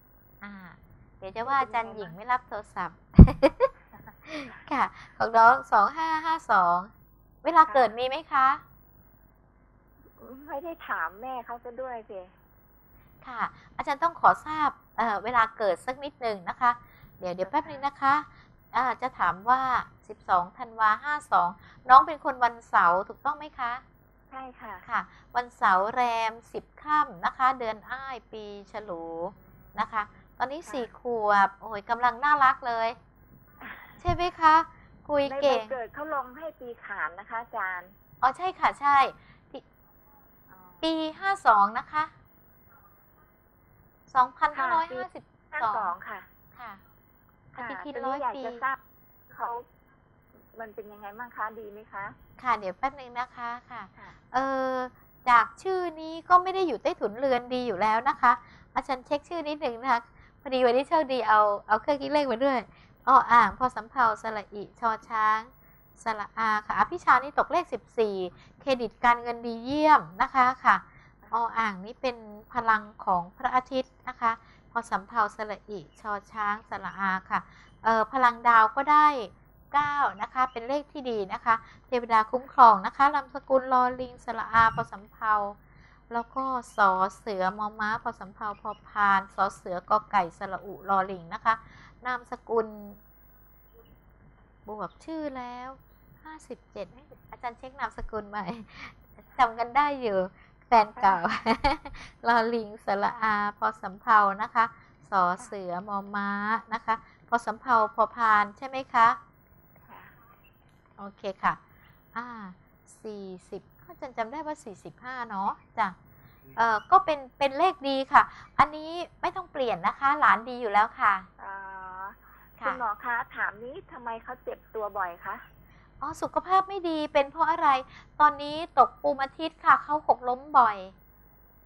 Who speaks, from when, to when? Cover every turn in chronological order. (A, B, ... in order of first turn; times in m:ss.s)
0:00.4-0:03.7 A
0:01.5-0:02.1 B
0:04.3-0:06.9 A
0:07.4-0:08.6 A
0:10.2-0:12.3 B
0:13.2-0:23.8 A
0:17.4-0:17.8 B
0:24.3-0:24.8 B
0:24.8-0:33.0 A
0:33.6-0:34.0 B
0:34.0-0:35.8 A
0:35.2-0:38.0 B
0:38.2-0:39.6 A
0:40.5-0:40.8 B
0:40.8-0:42.1 A
0:44.1-0:45.9 A
0:44.5-0:46.3 B
0:46.5-0:46.8 A
0:47.5-0:48.8 B
0:47.6-0:48.6 A
0:49.3-0:49.7 B
0:50.5-0:52.2 B
0:52.4-1:25.6 A
1:26.1-1:33.0 A
1:34.7-1:49.2 A
1:40.9-1:41.2 B
1:49.8-1:50.1 B
1:51.0-1:51.6 A
1:52.1-1:56.0 A
1:56.6-2:01.3 A
2:01.4-2:05.4 B
2:06.0-2:10.9 A